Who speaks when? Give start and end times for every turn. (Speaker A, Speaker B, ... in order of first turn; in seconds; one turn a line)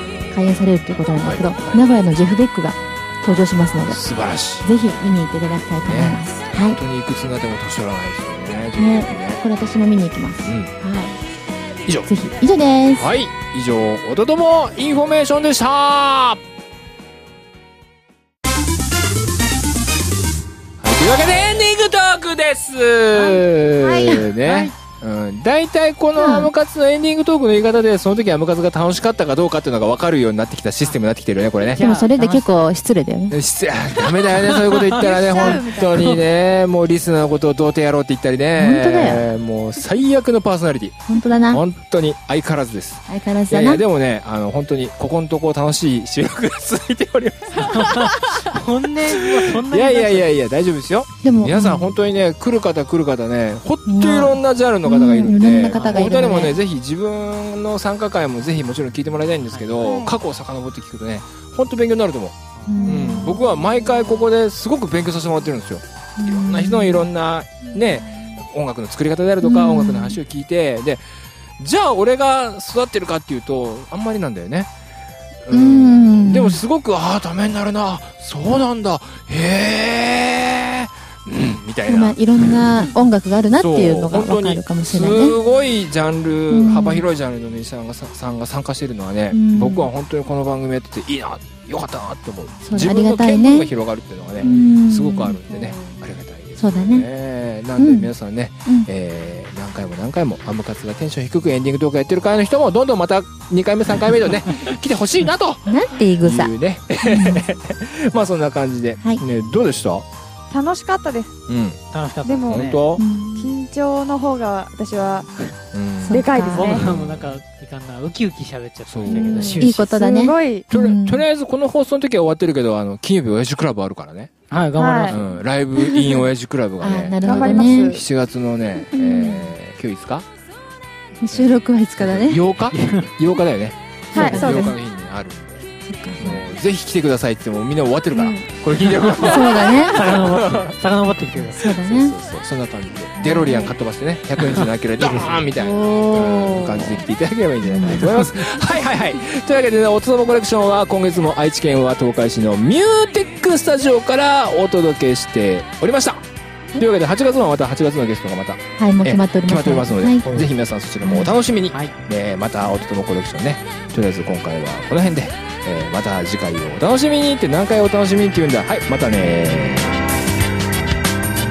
Speaker A: 0.3-4.0
Speaker B: 1.2-1.8
Speaker B: 3.9-4.7
Speaker A: 4.6-6.8
Speaker B: 5.8-9.4
Speaker A: 8.8-11.2
Speaker B: 10.4-10.7
Speaker B: 11.8-12.1
Speaker A: 12.1-13.1
Speaker B: 12.9-16.4
Speaker B: 20.8-31.8
Speaker C: 23.6-24.2
Speaker D: 24.4-24.7
Speaker A: 26.1-26.5
Speaker D: 31.8-32.6
Speaker A: 31.8-33.4
Speaker B: 33.3-48.5
Speaker D: 34.1-36.1
Speaker C: 34.9-36.2
Speaker A: 38.5-39.3
Speaker A: 41.1-41.6
Speaker A: 43.1-43.8
Speaker D: 47.6-50.3
Speaker B: 49.1-71.0
Speaker A: 51.2-51.9
Speaker A: 53.9-56.6
Speaker D: 55.7-56.2
Speaker D: 59.5-59.8
Speaker C: 59.8-60.2
Speaker D: 62.6-63.0
Speaker A: 62.7-63.5
Speaker A: 66.2-67.1
Speaker A: 69.4-70.2
Speaker B: 71.6-74.7
Speaker B: 75.4-82.8
Speaker A: 75.5-76.6
Speaker A: 81.8-85.4
Speaker B: 83.5-110.0
Speaker A: 86.5-87.0
Speaker A: 89.3-89.9
Speaker A: 92.6-93.7
Speaker A: 94.4-95.9
Speaker A: 96.6-97.1
Speaker A: 97.8-98.1
Speaker A: 105.7-107.5
Speaker C: 110.5-111.3
Speaker B: 111.5-111.8
Speaker D: 111.9-112.8
Speaker C: 112.2-115.5
Speaker B: 112.5-113.0
Speaker A: 113.0-113.5
Speaker B: 115.7-117.4
Speaker A: 116.0-116.8
Speaker C: 116.1-116.8
Speaker D: 116.5-119.8
Speaker B: 118.9-119.6
Speaker A: 119.0-121.2
Speaker C: 119.2-120.7
Speaker B: 120.7-124.3
Speaker D: 124.5-125.2
Speaker C: 124.8-125.2
Speaker B: 125.1-130.2
Speaker A: 126.8-128.0
Speaker C: 127.2-128.0
Speaker C: 128.9-129.5
Speaker A: 131.2-132.4
Speaker B: 131.3-135.7
Speaker D: 132.7-133.1
Speaker A: 134.1-134.8
Speaker C: 134.1-134.8
Speaker A: 135.8-136.4
Speaker B: 136.2-140.8
Speaker A: 138.1-138.4
Speaker D: 139.0-141.7
Speaker A: 139.1-140.2
Speaker A: 141.5-142.1
Speaker B: 141.6-156.2
Speaker A: 143.2-143.7
Speaker D: 144.4-145.4
Speaker A: 145.5-147.0
Speaker A: 147.6-148.0
Speaker D: 147.9-148.2
Speaker B: 156.8-170.0
Speaker A: 158.8-160.3
Speaker A: 161.0-161.3
Speaker D: 161.7-161.9
Speaker C: 169.8-170.5